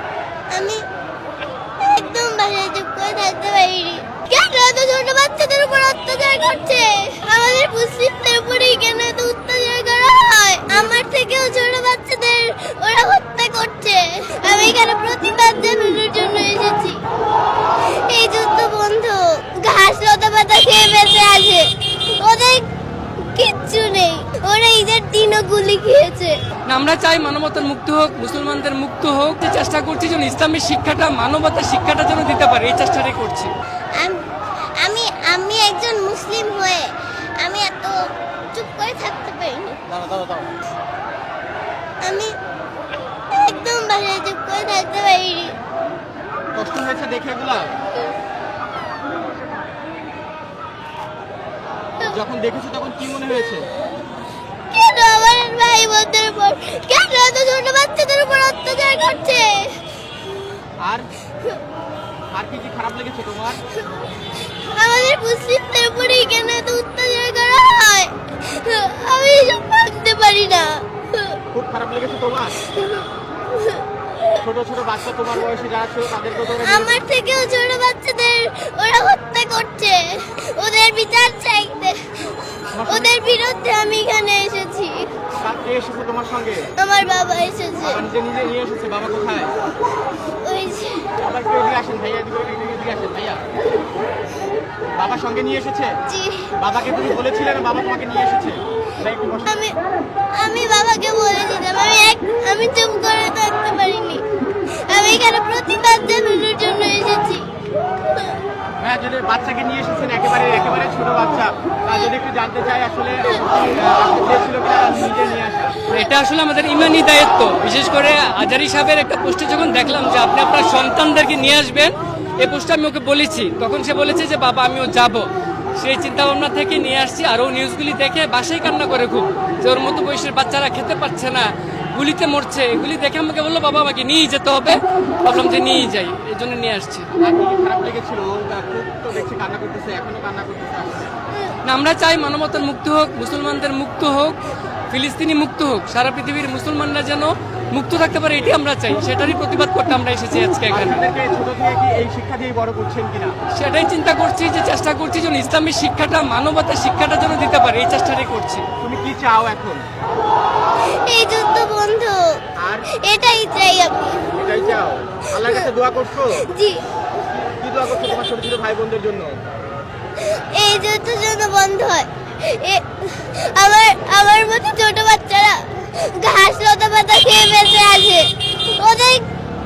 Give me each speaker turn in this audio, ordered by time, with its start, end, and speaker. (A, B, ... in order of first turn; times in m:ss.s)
0:00.5-0:00.8 A
0:01.8-0:17.0 A
0:17.9-0:22.7 A
0:23.2-0:26.4 A
0:26.7-0:33.5 B
0:34.8-0:39.8 A
0:39.9-0:40.5 C
0:42.0-0:42.4 A
0:43.3-0:45.6 A
0:46.6-0:47.8 C
0:52.0-0:53.7 C
0:54.7-0:59.8 A
1:00.8-1:01.1 C
1:02.3-1:03.6 C
1:04.6-1:11.4 A
1:11.5-1:12.6 C
1:12.8-1:14.4 A
1:14.4-1:17.0 C
1:16.6-1:22.1 A
1:22.7-1:23.1 C
1:22.9-1:25.1 A
1:25.4-1:26.7 C
1:26.8-1:28.0 A
1:27.8-1:29.5 C
1:30.4-1:31.1 A
1:31.2-1:33.4 C
1:35.0-1:35.9 C
1:36.1-1:36.5 A
1:36.6-1:39.5 C
1:39.5-1:39.8 A
1:40.3-1:47.5 A
1:48.8-1:55.8 C
1:55.9-2:05.3 B
2:05.8-2:17.1 B
2:17.2-2:21.1 C
2:21.6-2:24.4 B
2:24.9-2:31.0 B
2:30.7-2:33.4 C
2:33.5-2:38.6 B
2:38.8-2:39.8 C
2:40.9-2:42.4 A
2:42.6-2:42.9 C
2:42.9-2:44.2 A
2:44.4-2:46.4 C
2:46.4-2:46.8 A
2:47.3-2:49.4 C
2:50.2-2:59.3 A